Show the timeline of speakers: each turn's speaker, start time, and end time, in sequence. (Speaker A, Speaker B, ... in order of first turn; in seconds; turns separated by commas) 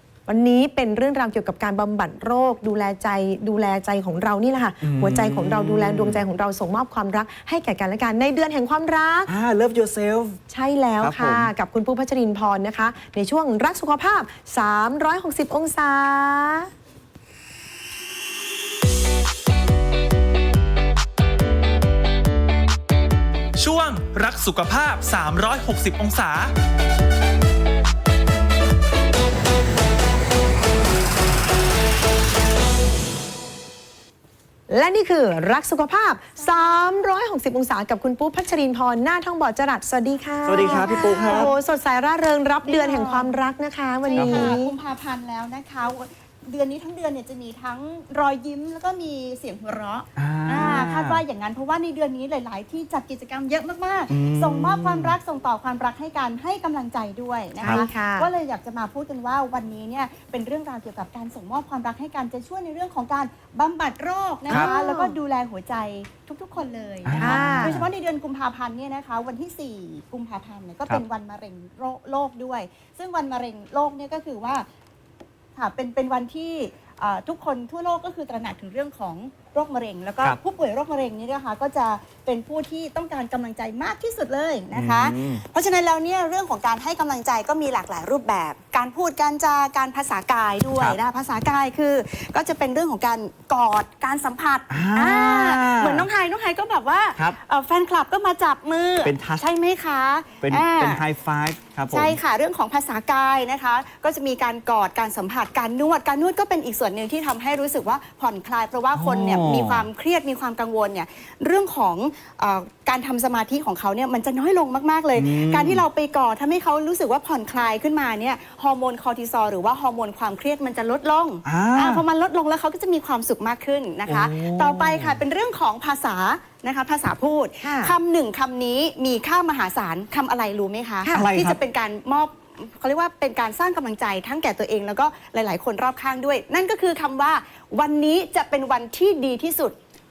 Speaker A: 0.3-9.3, Speaker B: 4.8-6.2, Speaker B: 9.3-10.4, Speaker A: 10.5-16.7, Speaker B: 11.0-11.5, Speaker C: 23.6-26.5, Speaker A: 34.7-44.7, Speaker B: 40.5-41.5, Speaker D: 40.6-41.5, Speaker D: 42.6-43.3, Speaker D: 44.0-74.7, Speaker B: 44.1-44.6, Speaker B: 50.2-51.2, Speaker B: 54.1-55.2, Speaker A: 57.6-58.3, Speaker A: 64.5-65.1, Speaker B: 67.0-67.9, Speaker A: 67.2-67.8, Speaker D: 75.5-101.0, Speaker B: 84.7-85.4, Speaker B: 94.7-96.1, Speaker B: 99.0-99.4, Speaker B: 100.4-102.2, Speaker D: 101.9-139.8, Speaker B: 108.9-109.9, Speaker B: 115.1-115.8, Speaker B: 121.4-122.0, Speaker B: 124.0-125.2, Speaker A: 127.6-127.9, Speaker B: 131.1-131.6